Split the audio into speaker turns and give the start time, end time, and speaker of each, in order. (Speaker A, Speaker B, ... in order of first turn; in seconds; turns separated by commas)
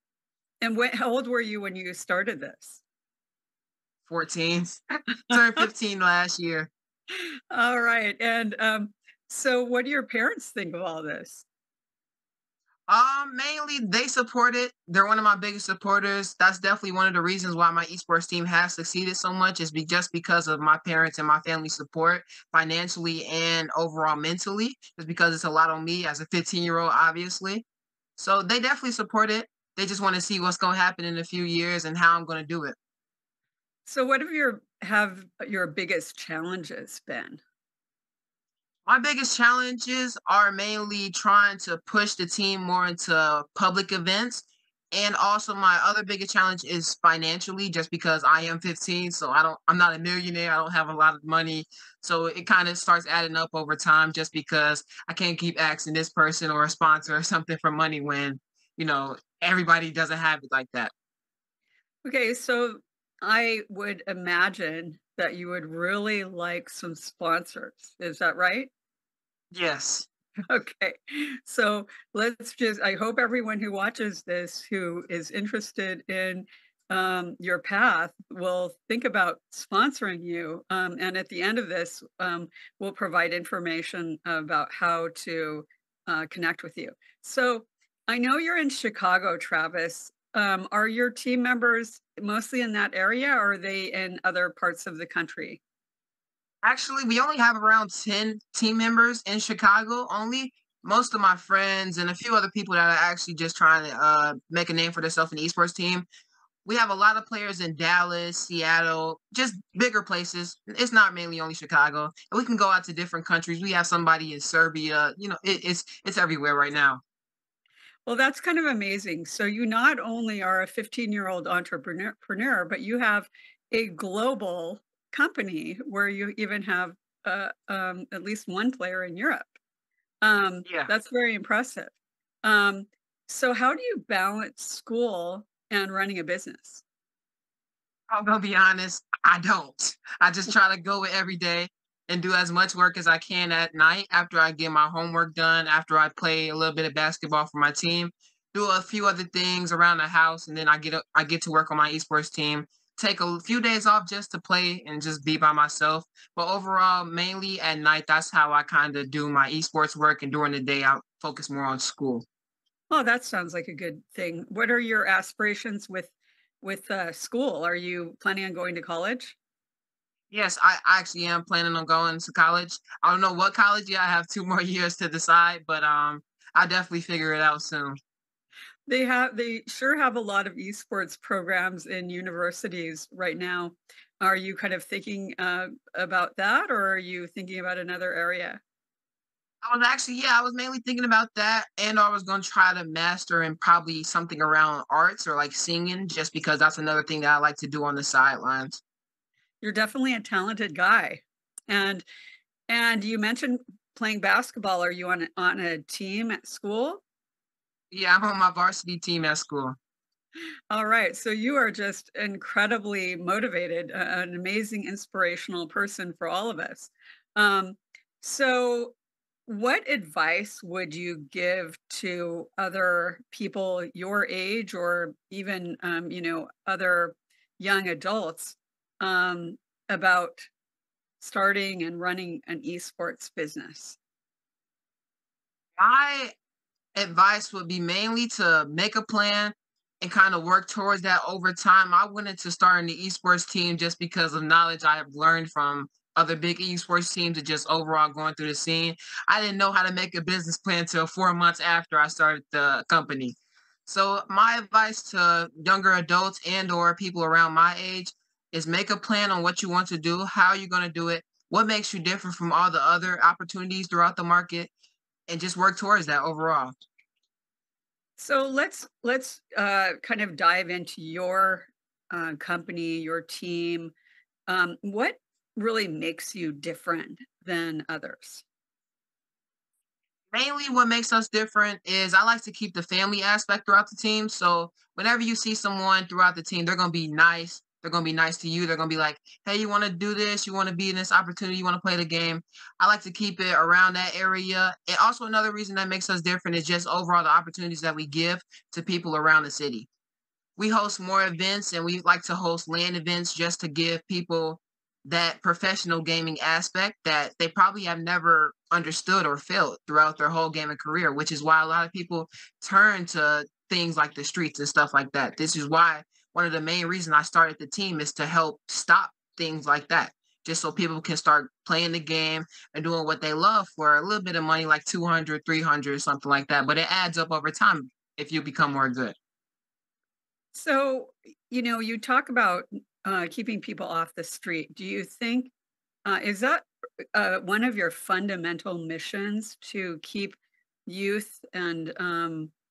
Speaker A: 0.6-2.8, Speaker B: 4.1-6.7, Speaker A: 5.3-5.6, Speaker A: 7.1-11.4, Speaker B: 12.9-27.6, Speaker B: 28.2-32.7, Speaker A: 33.9-37.4, Speaker B: 38.9-60.9, Speaker A: 62.0-68.7, Speaker B: 69.5-70.1, Speaker A: 70.5-95.6, Speaker B: 96.6-106.1, Speaker B: 106.6-117.0, Speaker A: 118.0-129.6, Speaker A: 130.2-136.8, Speaker B: 138.1-162.2, Speaker A: 162.9-169.4, Speaker B: 170.3-178.0, Speaker A: 178.9-188.6, Speaker B: 189.6-198.8, Speaker A: 199.6-202.0, Speaker A: 202.7-207.0, Speaker B: 207.9-209.8, Speaker A: 210.7-218.9, Speaker A: 219.5-230.4, Speaker A: 231.2-234.0, Speaker B: 235.8-236.3, Speaker B: 236.9-264.7, Speaker B: 265.3-266.7, Speaker A: 268.2-273.9, Speaker A: 274.5-278.4, Speaker B: 280.3-299.9, Speaker B: 300.6-329.1, Speaker A: 330.5-335.5, Speaker A: 336.0-342.5